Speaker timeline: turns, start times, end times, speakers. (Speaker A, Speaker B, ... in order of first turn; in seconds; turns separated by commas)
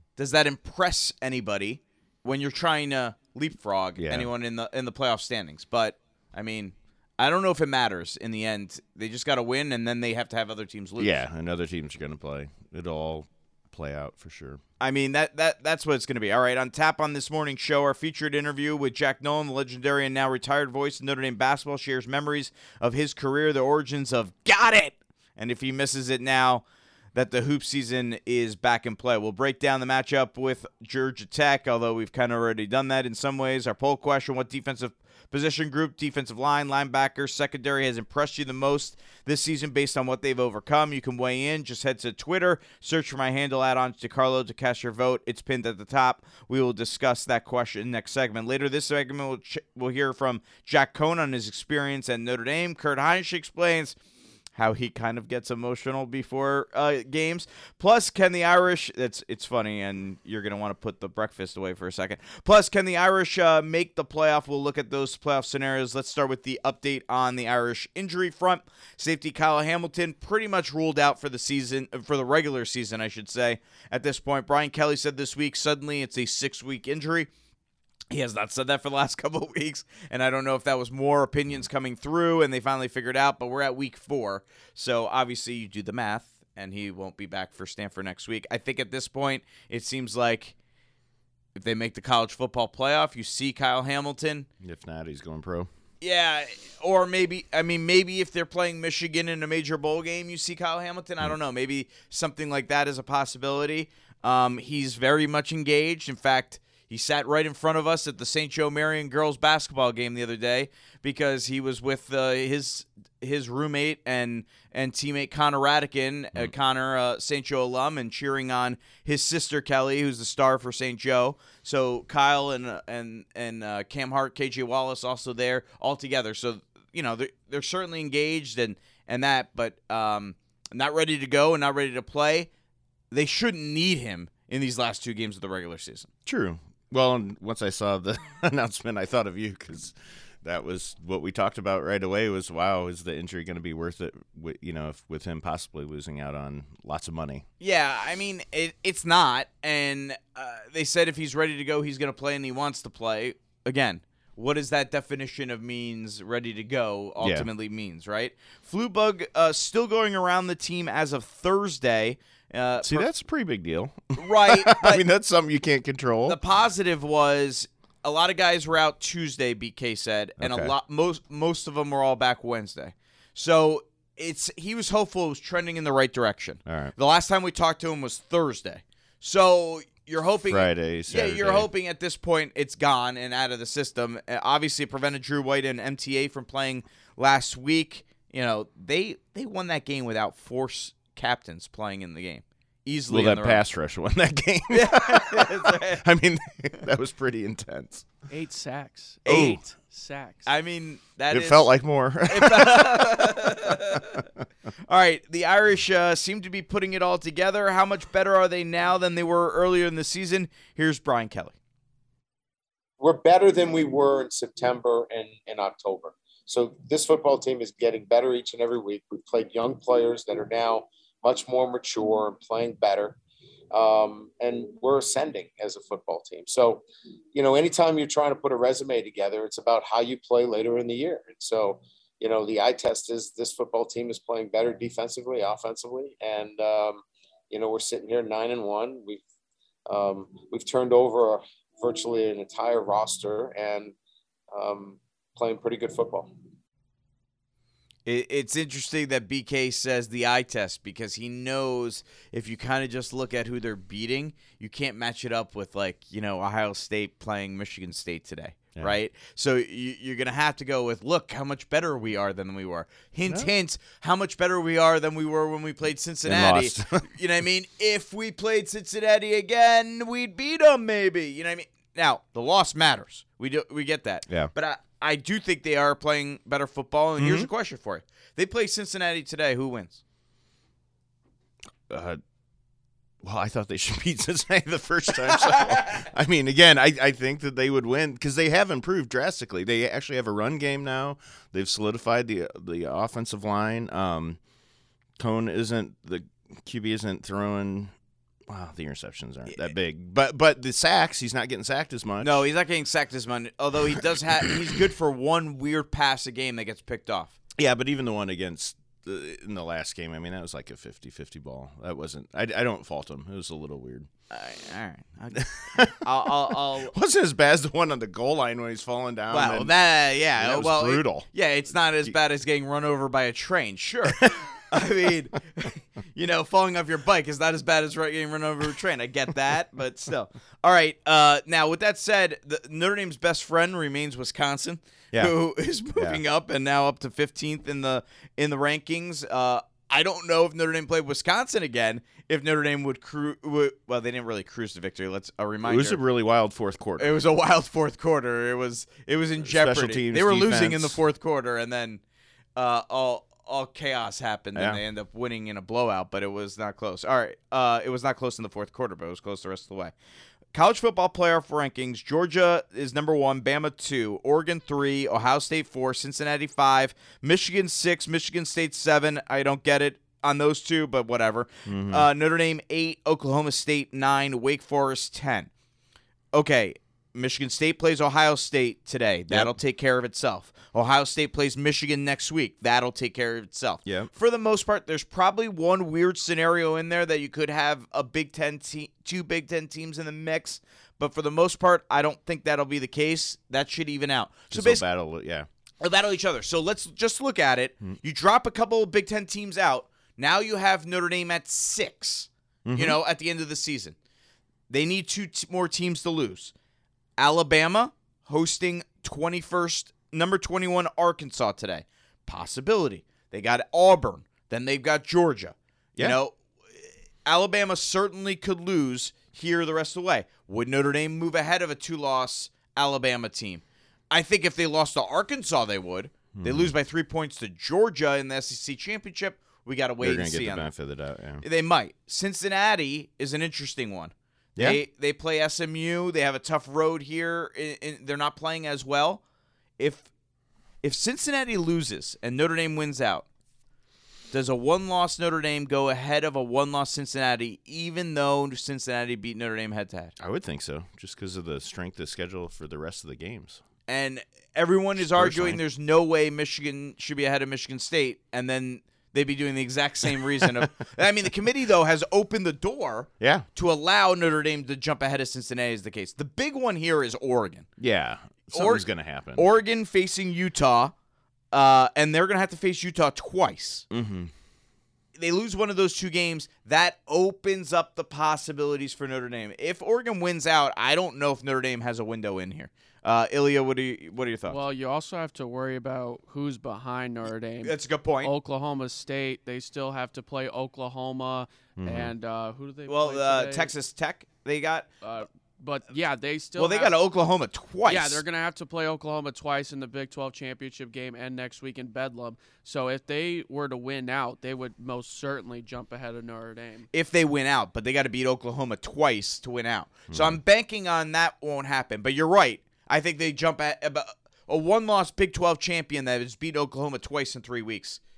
Speaker A: 0.2-11.2, Speaker B: 4.0-4.3, Speaker B: 11.0-14.6, Speaker A: 14.8-53.9, Speaker A: 54.5-77.3, Speaker A: 78.1-90.5, Speaker A: 91.5-94.5, Speaker B: 94.6-95.7, Speaker A: 96.0-132.5, Speaker A: 133.1-136.1, Speaker B: 136.2-147.4, Speaker A: 147.6-163.1, Speaker B: 157.2-157.5, Speaker B: 162.8-166.4, Speaker A: 164.2-165.0, Speaker A: 166.3-193.6, Speaker B: 170.4-170.7, Speaker B: 176.7-176.9, Speaker B: 180.5-181.7, Speaker B: 193.1-198.1, Speaker A: 194.7-196.0, Speaker C: 198.3-200.5, Speaker A: 199.2-199.6, Speaker B: 199.3-199.6, Speaker A: 200.4-201.7, Speaker B: 201.3-203.5, Speaker A: 202.3-204.1, Speaker A: 204.9-211.6, Speaker D: 213.0-223.2, Speaker D: 223.7-239.2, Speaker D: 239.9-243.9, Speaker D: 244.5-246.3, Speaker A: 248.1-280.0, Speaker B: 266.2-267.1, Speaker B: 277.2-277.5, Speaker B: 281.9-282.2, Speaker B: 283.2-294.4, Speaker B: 295.2-297.9, Speaker B: 298.5-302.4, Speaker A: 302.2-307.3, Speaker B: 307.6-314.1, Speaker A: 314.3-316.9, Speaker B: 315.4-315.9, Speaker B: 316.9-319.7, Speaker A: 319.3-346.0, Speaker B: 320.4-321.3, Speaker B: 324.2-324.7, Speaker B: 345.6-347.2, Speaker A: 347.0-352.0, Speaker B: 349.4-351.0, Speaker A: 352.6-359.9, Speaker A: 360.5-375.5, Speaker B: 371.7-372.1, Speaker A: 376.3-394.8, Speaker B: 383.8-384.1, Speaker B: 394.5-395.5, Speaker A: 395.8-403.9, Speaker B: 402.6-403.0, Speaker A: 404.7-406.5, Speaker A: 407.2-430.7, Speaker B: 426.3-426.7, Speaker B: 430.0-431.4, Speaker A: 431.4-439.2, Speaker A: 439.8-440.1, Speaker A: 440.8-443.2, Speaker A: 444.3-450.1, Speaker B: 450.2-453.6, Speaker A: 453.9-467.7, Speaker B: 455.0-455.6, Speaker B: 463.2-463.4, Speaker B: 467.8-469.5, Speaker A: 468.5-470.9, Speaker A: 471.5-473.9, Speaker B: 473.9-474.3, Speaker A: 475.1-484.6, Speaker C: 484.5-493.7, Speaker A: 487.6-488.3, Speaker B: 491.8-492.1, Speaker A: 492.9-494.9, Speaker C: 495.0-496.9, Speaker A: 496.6-498.2, Speaker C: 497.8-506.9, Speaker A: 506.9-518.0, Speaker B: 510.1-510.4